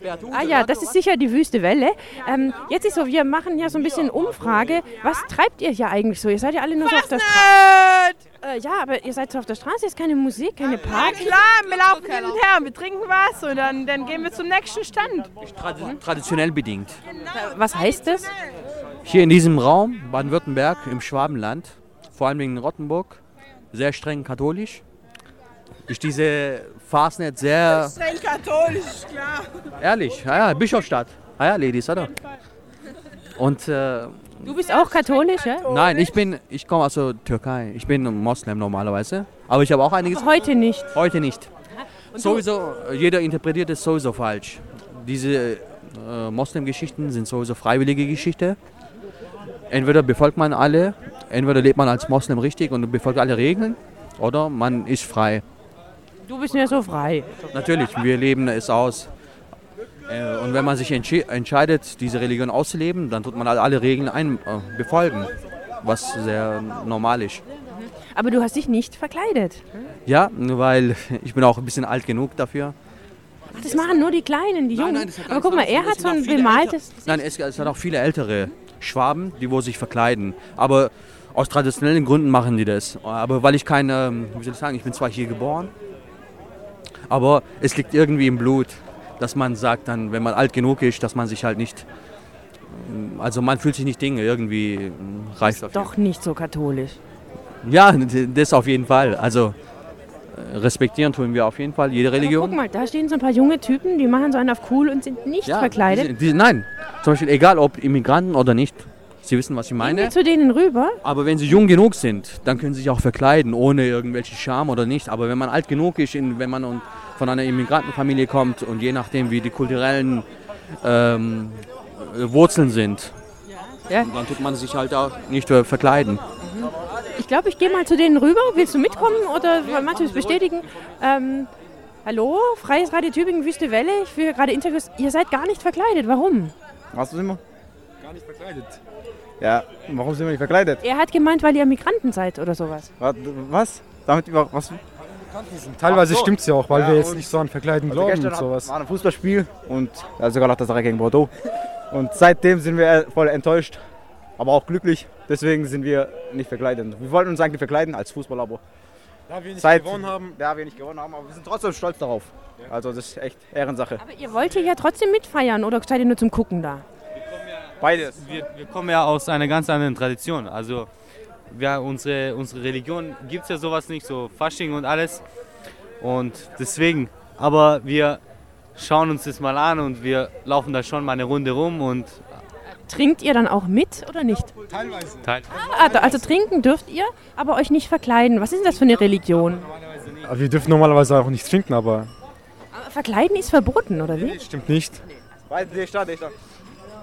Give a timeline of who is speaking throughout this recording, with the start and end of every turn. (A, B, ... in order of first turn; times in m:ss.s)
0:00.3-0:07.6 A
0:07.0-0:08.2 B
0:08.4-0:11.4 A
0:10.9-0:15.3 B
0:15.4-0:17.0 C
0:17.3-0:18.3 A
0:19.0-0:23.2 C
0:23.7-0:24.8 C
0:25.9-0:28.0 C
0:28.1-0:29.1 B
0:29.8-0:32.2 C
0:33.4-0:34.5 C
0:34.4-0:35.7 A
0:35.6-0:41.5 C
0:40.1-0:40.9 A
0:42.1-0:42.4 A
0:42.2-0:48.6 C
0:49.7-0:55.4 C
0:56.3-0:57.4 A
0:57.5-0:59.1 C
1:00.1-1:07.4 C
1:07.7-1:09.9 A
1:10.1-1:12.8 C
1:13.6-1:17.7 A
1:15.9-1:16.4 C
1:17.0-1:25.7 C
1:27.1-1:31.9 C
1:32.7-1:35.9 C
1:35.5-1:37.0 A
1:37.6-1:39.6 C
1:40.3-1:42.6 C
1:42.2-1:46.1 A
1:45.4-1:50.1 C
1:49.8-1:51.0 A
1:51.0-2:00.2 C
2:00.8-2:03.2 C
2:04.0-2:06.2 C
2:06.4-2:11.5 A
2:12.0-2:16.5 A
2:16.9-2:17.4 D
2:19.4-2:20.8 D
2:20.8-2:22.9 A
2:23.0-2:24.8 D
2:25.4-2:28.7 E
2:25.8-2:27.3 D
2:27.9-2:31.3 D
2:31.9-2:33.8 D
2:34.4-2:38.6 D
2:39.3-2:40.4 E
2:39.6-2:44.0 D
2:44.0-2:46.8 A
2:47.8-2:48.2 D
2:48.1-2:50.9 F
2:51.5-2:55.2 F
2:56.0-2:58.2 F
2:58.8-3:02.4 F
3:02.9-3:04.5 A
3:05.2-3:05.6 F
3:05.5-3:09.7 A
3:10.2-3:12.1 E
3:12.7-3:14.4 A
3:14.3-3:15.0 E
3:15.5-3:16.4 D